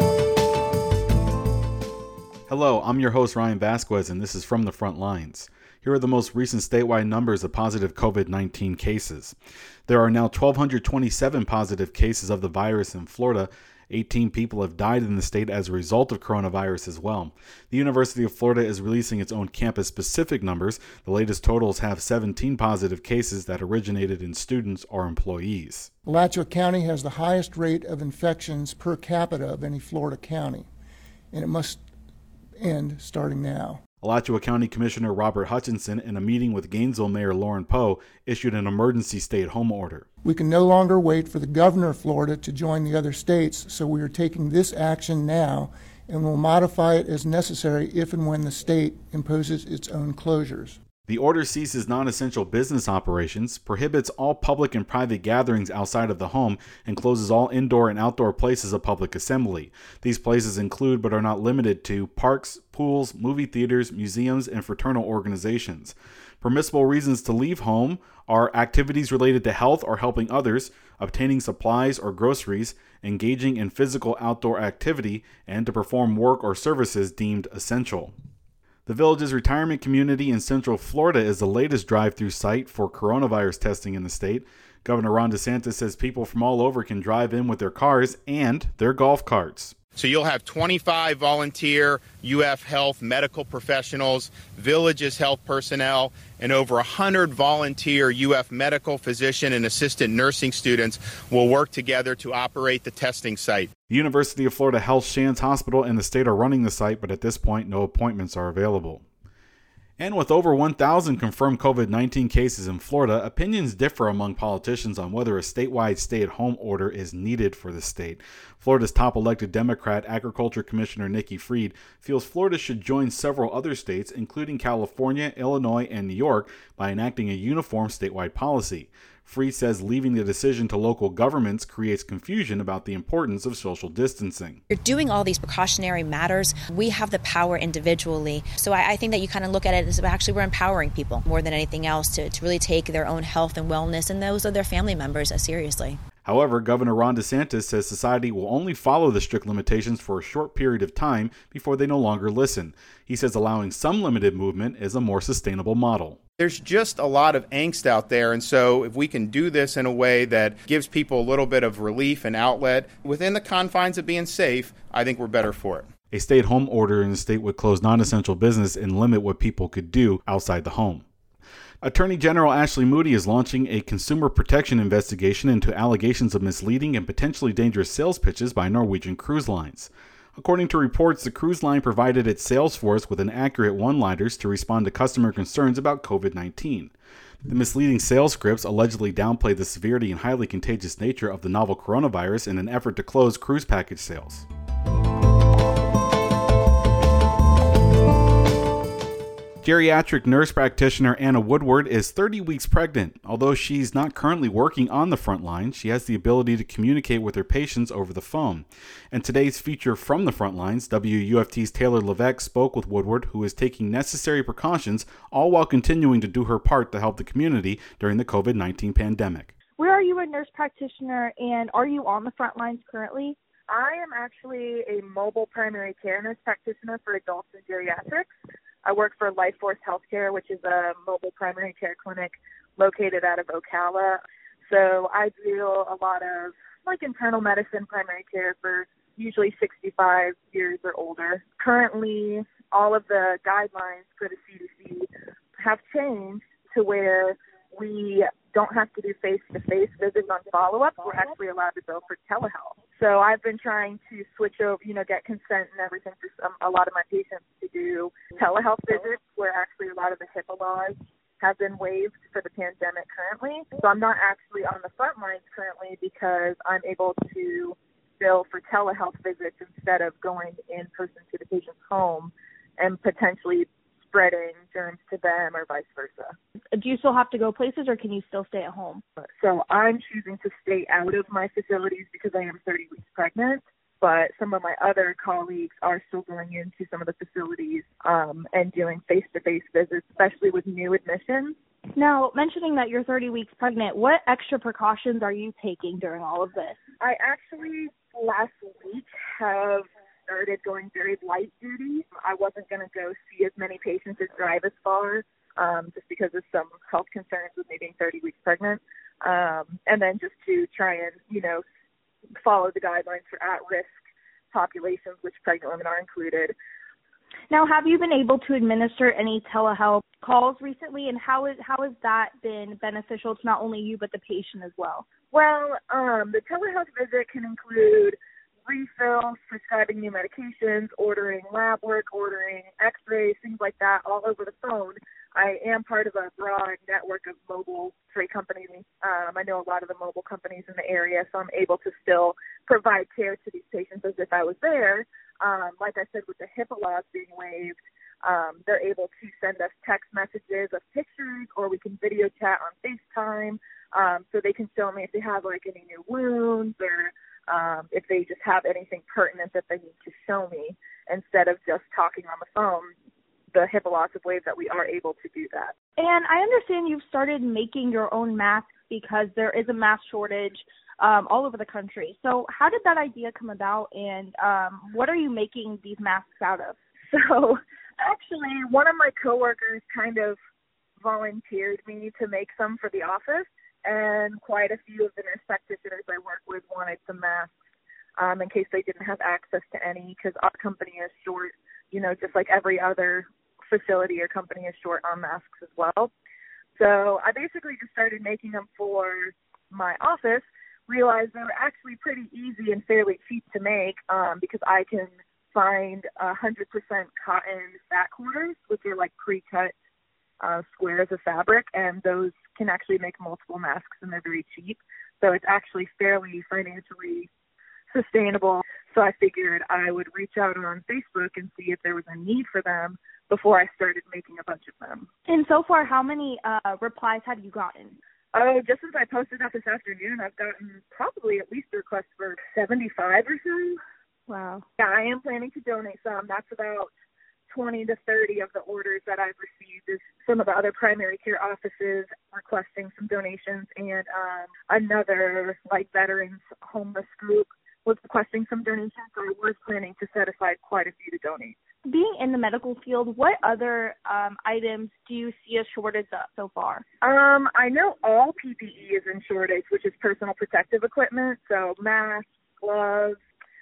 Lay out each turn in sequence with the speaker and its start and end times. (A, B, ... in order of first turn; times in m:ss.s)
0:02.5-0:09.4 A
0:09.9-0:25.9 A
0:26.0-0:30.7 B
0:31.3-0:31.8 B
0:32.6-0:33.8 B
0:34.0-0:40.0 A
0:40.2-0:50.8 B
0:51.1-1:18.1 A
1:18.8-1:29.7 A
1:30.0-1:43.7 C
1:43.9-1:49.0 A
1:50.0-2:14.6 A
2:14.7-2:26.0 D
2:26.2-2:36.2 A
2:36.4-2:45.9 C
2:46.1-2:51.0 A
2:51.8-3:06.9 A
3:07.5-3:14.4 A
3:19.6-3:39.5 A
3:39.8-3:43.4 E
3:43.7-3:48.3 F
3:48.8-4:36.4 F
4:36.7-4:39.0 E
4:39.2-4:51.6 F
4:51.9-4:56.8 E
4:57.0-5:11.6 F
5:12.4-5:16.6 F
5:17.5-5:25.1 E
5:25.3-6:02.9 F
6:03.5-6:05.7 F
6:06.0-6:16.8 E
6:17.1-6:20.4 F
6:21.0-6:27.6 F
6:28.2-6:36.1 F
6:36.8-6:49.7 F
6:50.4-6:57.3 F
6:57.9-7:05.1 F
7:05.3-7:08.0 E
7:08.3-7:13.8 F
7:14.3-7:14.7 E
7:14.8-7:16.9 F
7:17.5-7:31.6 F
7:31.8-7:36.8 E
7:37.0-7:43.2 F